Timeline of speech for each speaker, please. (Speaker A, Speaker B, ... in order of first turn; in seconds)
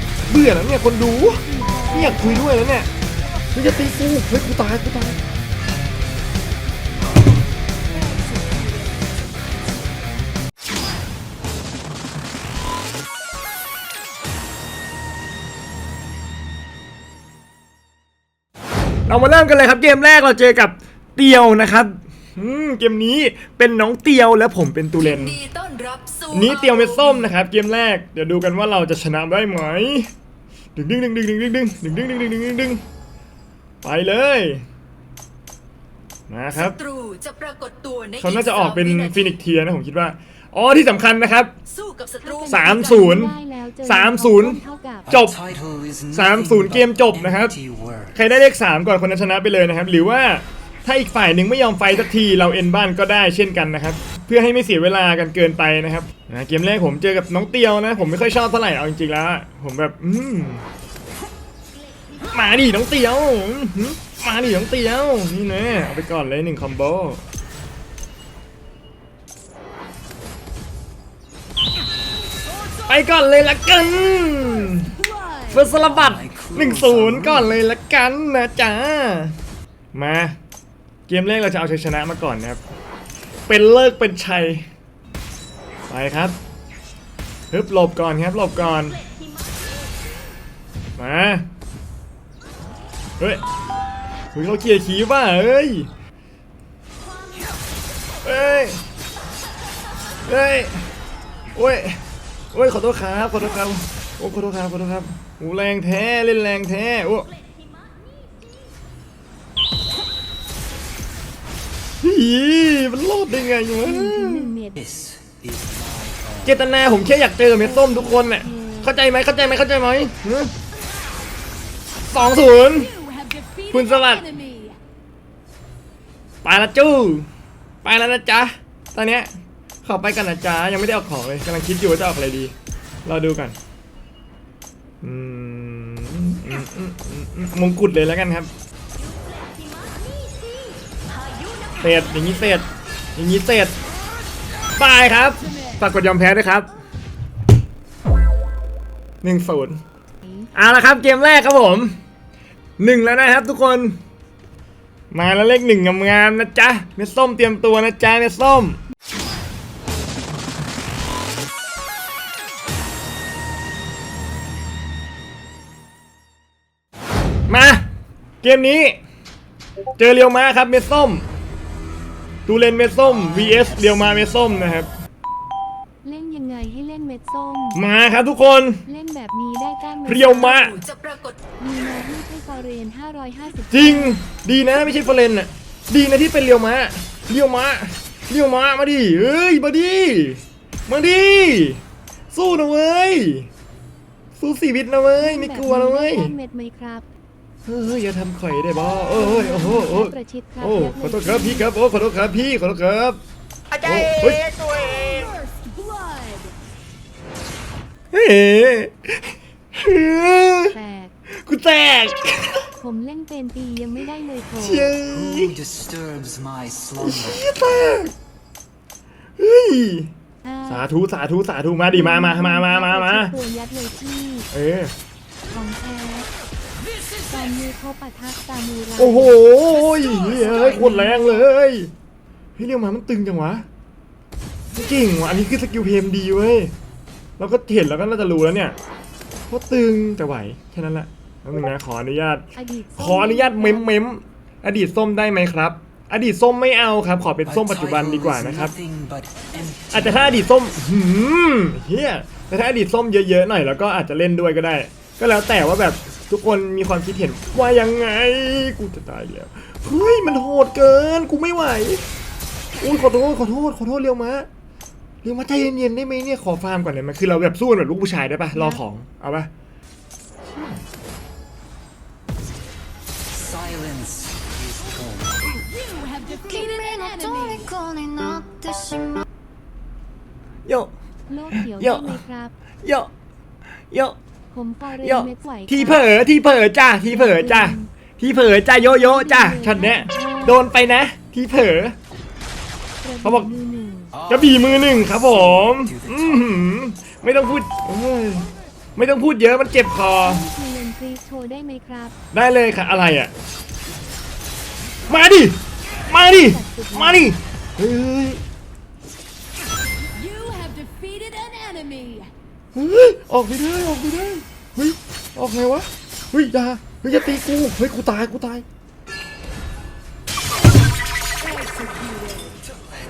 Speaker A: 0.3-2.9, 3.5-5.2, 19.1-25.4, 26.3-30.1, 30.7-32.8, 33.8-34.6, 36.3-36.8, 38.2-41.5, 42.5-45.4, 46.1-47.5, 48.1-60.6, 62.3-67.2, 72.8-75.0, 75.5-79.3, 79.9-80.4, 81.1-82.6, 83.5-84.7, 85.9-86.4, 87.5-89.0, 91.0-91.5, 94.3-95.9, 98.2-98.8, 100.2-100.9, 101.5-102.0, 102.5-107.3, 112.0-114.6, 116.4-120.5, 122.1-123.0, 123.7-124.4, 126.4-127.3, 127.8-129.3, 129.8-132.5, 133.0-133.6, 135.0-138.5, 141.8-143.7, 144.7-146.7, 149.2-149.8, 150.6-152.0, 152.8-154.0, 155.1-158.8, 167.5-167.9, 168.4-169.0, 170.0-171.2, 172.4-174.9, 177.7-178.8, 180.0-180.8, 183.7-193.5, 194.3-196.3, 197.7-203.2, 203.8-204.6, 208.1-210.8, 211.3-212.7, 214.6-215.6, 217.0-218.1, 219.4-220.1, 220.7-223.4, 224.5-224.9, 229.0-231.9, 232.6-233.7, 234.7-236.7, 237.4-238.8, 239.5-248.7, 249.9-262.1, 262.8-264.5, 265.2-269.5, 280.6-280.9, 281.5-282.2, 282.8-283.1, 283.9-284.1, 285.0-291.9, 293.2-293.5, 294.2-300.5, 302.3-303.3, 305.1-308.4, 312.7-318.6
Speaker B: 1.2-2.5, 42.2-45.1, 113.8-114.8, 117.6-119.0, 150.2-150.5, 176.0-177.8, 178.8-180.7, 181.6-184.2, 195.1-197.0, 199.0-201.7, 210.7-211.1, 212.8-215.0, 220.4-220.8, 221.8-224.5, 225.5-226.3, 227.1-229.4, 230.2-231.5, 242.5-244.0, 268.5-268.8, 281.3-282.5, 284.5-286.1, 287.1-287.9, 288.7-290.6, 293.0-294.2, 300.1-302.2, 306.2-307.3
Speaker C: 25.0-27.2, 36.6-39.3, 41.7-42.5, 139.6-140.1, 141.3-141.8, 180.7-181.4, 204.6-205.0
Speaker D: 45.1-48.1, 75.6-77.5, 114.8-116.5, 215.1-217.4, 247.5-250.4, 273.3-275.6, 294.6-296.3
Speaker E: 205.2-206.5, 276.1-279.2, 310.2-312.3